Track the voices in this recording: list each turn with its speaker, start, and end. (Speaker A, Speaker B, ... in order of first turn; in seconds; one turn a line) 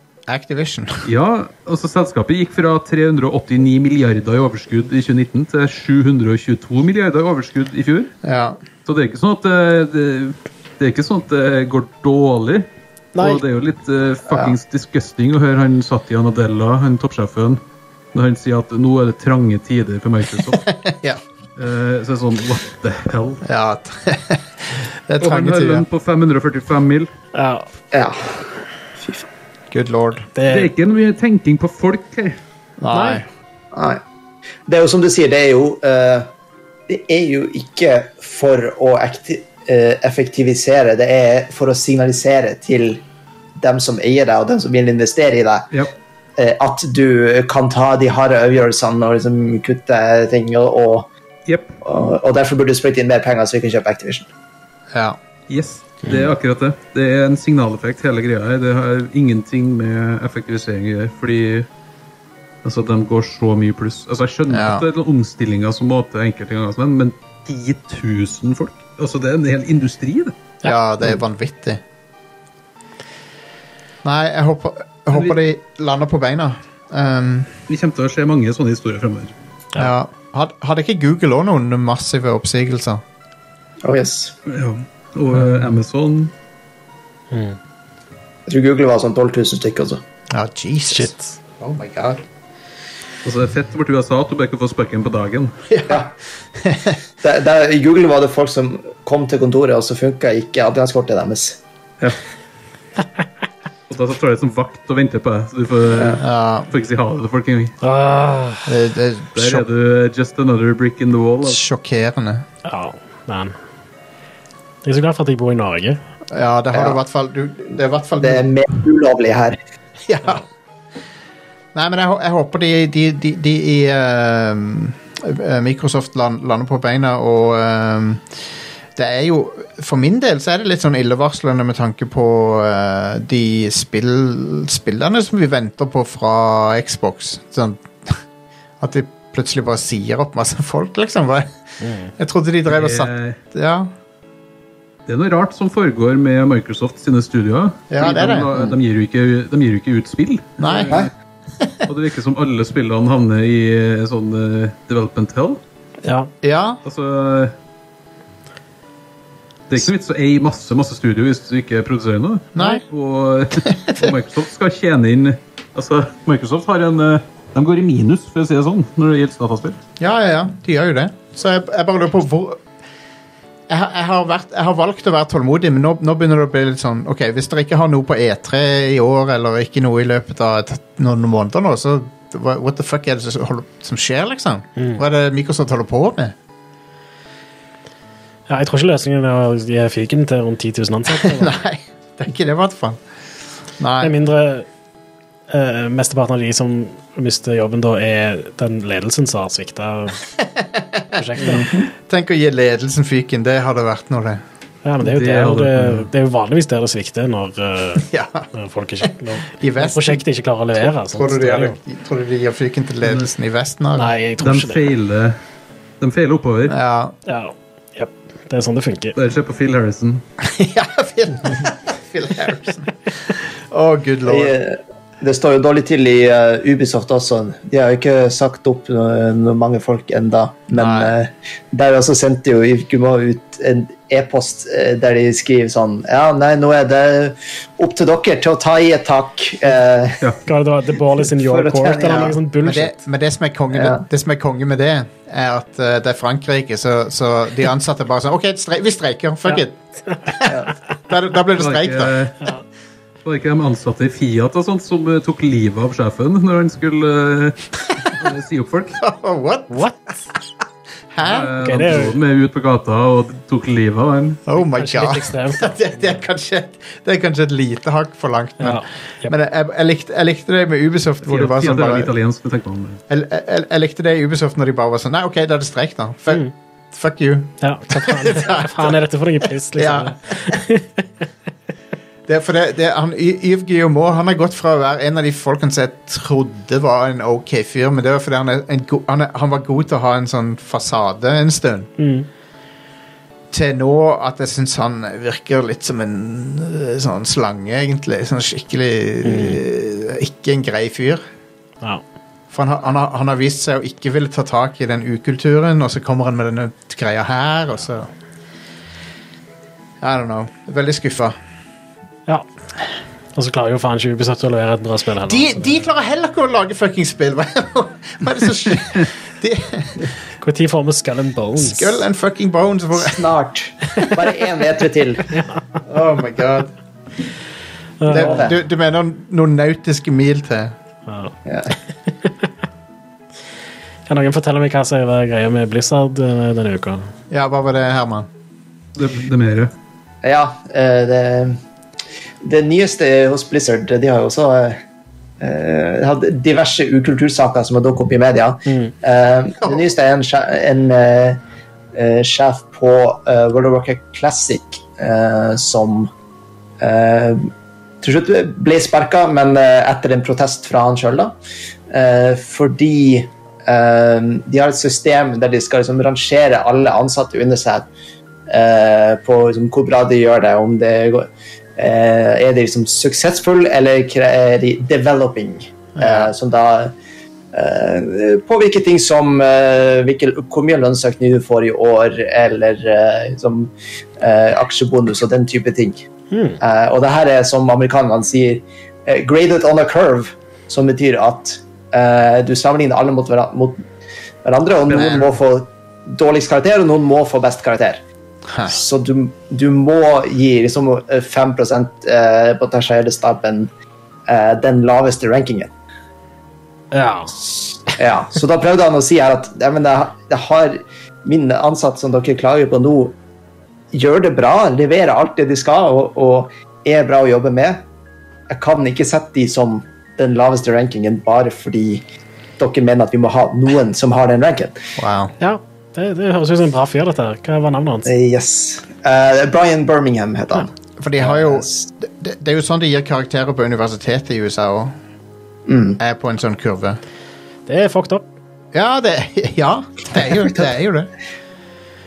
Speaker A: 0.3-1.1
Speaker B: 1.0-8.1
Speaker A: 8.2-8.6
Speaker B: 8.9-17.6
Speaker C: 13.2-13.4
Speaker B: 18.1-20.7
Speaker A: 20.5-21.2
Speaker B: 21.6-23.4
Speaker A: 23.4-25.9
Speaker B: 25.2-27.1
Speaker C: 27.3-27.7
Speaker D: 27.9-29.3
Speaker A: 29.7-30.3
Speaker C: 30.4-30.7
Speaker B: 30.4-32.4
Speaker A: 32.8-33.3
Speaker C: 32.9-33.2
Speaker D: 33.7-34.0
Speaker D: 34.7-36.3
Speaker D: 36.9-43.0
Speaker D: 43.6-45.7
Speaker D: 46.4-51.1
Speaker B: 51.5-51.8
Speaker D: 51.8-54.3
Speaker A: 54.9-55.2
Speaker B: 55.5-61.7
Speaker B: 62.6-70.3
Speaker A: 64.5-64.8
Speaker A: 70.6-71.8
Speaker A: 74.0-77.5
Speaker B: 77.7-79.3
Speaker A: 79.8-83.0
Speaker D: 83.8-84.4
Speaker B: 84.5-86.3
Speaker C: 87.3-87.6
Speaker D: 88.5-90.0
Speaker A: 90.3-92.2
Speaker C: 90.9-91.2
Speaker B: 93.2-95.6
Speaker A: 95.7-97.0
Speaker D: 95.9-96.1
Speaker D: 97.2-101.6
Speaker B: 103.9-107.8
Speaker D: 105.9-106.2
Speaker A: 106.2-106.7
Speaker C: 107.8-108.7
Speaker A: 108.7-109.7
Speaker B: 109.3-111.6
Speaker A: 111.4-112.5
Speaker C: 112.6-113.5
Speaker C: 114.8-116.0
Speaker A: 116.3-118.5
Speaker D: 116.7-117.0
Speaker D: 118.2-119.6
Speaker A: 120.1-120.5
Speaker A: 121.7-128.3
Speaker A: 128.9-138.2
Speaker A: 138.8-141.5
Speaker C: 141.8-142.1
Speaker A: 142.2-143.9
Speaker B: 142.7-143.4
Speaker B: 145.1-151.1
Speaker A: 147.9-148.5
Speaker A: 150.6-151.0
Speaker B: 151.8-155.6
Speaker C: 156.0-156.3
Speaker A: 156.4-156.8
Speaker B: 156.8-157.5
Speaker B: 159.7-169.8
Speaker A: 162.6-162.8
Speaker A: 163.7-164.1
Speaker A: 170.0-172.6
Speaker A: 173.7-186.3
Speaker C: 184.8-185.0
Speaker C: 188.5-191.6
Speaker A: 191.1-193.0
Speaker A: 193.8-194.1
Speaker C: 194.0-194.7
Speaker C: 195.5-200.2
Speaker A: 200.4-204.4
Speaker C: 201.1-201.7
Speaker D: 201.4-201.9
Speaker C: 204.8-211.8
Speaker B: 205.0-206.1
Speaker A: 208.0-208.5
Speaker A: 209.0-210.2
Speaker A: 210.8-214.1
Speaker B: 213.0-213.3
Speaker C: 213.9-214.9
Speaker B: 214.4-215.4
Speaker B: 216.0-216.8
Speaker A: 216.7-217.1
Speaker C: 217.3-219.2
Speaker B: 219.1-220.2
Speaker A: 220.4-224.6
Speaker D: 224.3-240.2
Speaker A: 230.7-231.1
Speaker C: 240.4-243.0
Speaker D: 241.3-242.4
Speaker A: 242.0-252.1
Speaker D: 243.7-244.0
Speaker D: 250.4-250.7
Speaker B: 251.6-252.4
Speaker B: 253.2-259.0
Speaker A: 259.0-259.9
Speaker C: 259.7-260.2
Speaker A: 261.1-261.5
Speaker B: 261.2-264.4
Speaker C: 261.6-262.2
Speaker A: 264.4-272.1
Speaker C: 264.6-265.8
Speaker C: 268.6-269.3
Speaker B: 271.2-273.0
Speaker A: 273.1-278.9
Speaker C: 277.6-281.0
Speaker A: 279.8-280.6
Speaker A: 282.3-291.9
Speaker C: 292.0-292.3
Speaker A: 293.5-301.2
Speaker C: 299.2-299.6
Speaker A: 302.5-308.1
Speaker A: 310.0-311.4
Speaker C: 313.4-315.7
Speaker A: 315.2-320.1
Speaker C: 320.4-322.0
Speaker A: 321.6-323.3
Speaker D: 322.9-325.3
Speaker A: 325.9-326.7
Speaker C: 328.0-328.4
Speaker A: 328.1-330.7
Speaker D: 328.2-328.6
Speaker C: 331.1-331.3
Speaker D: 331.4-331.7
Speaker C: 334.1-337.1
Speaker A: 337.3-338.3
Speaker B: 338.9-339.7
Speaker D: 340.2-341.6
Speaker D: 342.4-344.8
Speaker D: 345.4-351.4
Speaker C: 348.7-348.9
Speaker D: 351.9-356.1
Speaker D: 356.8-357.5
Speaker D: 358.0-361.4
Speaker D: 361.9-367.9
Speaker D: 368.5-376.9
Speaker A: 376.0-376.3
Speaker D: 377.5-386.1
Speaker C: 386.3-386.6
Speaker D: 386.6-393.8
Speaker D: 394.4-398.0
Speaker B: 394.9-395.2
Speaker A: 394.9-395.2
Speaker A: 398.5-398.8
Speaker D: 398.7-403.7
Speaker D: 404.3-405.7
Speaker C: 406.9-407.5
Speaker D: 407.9-413.1
Speaker D: 413.9-417.8
Speaker D: 418.5-422.0
Speaker D: 422.6-424.8
Speaker A: 425.0-425.4
Speaker C: 425.4-428.1
Speaker D: 428.1-431.9
Speaker A: 431.0-434.9
Speaker D: 435.7-436.0
Speaker A: 436.0-437.0
Speaker C: 437.7-438.2
Speaker A: 438.7-441.1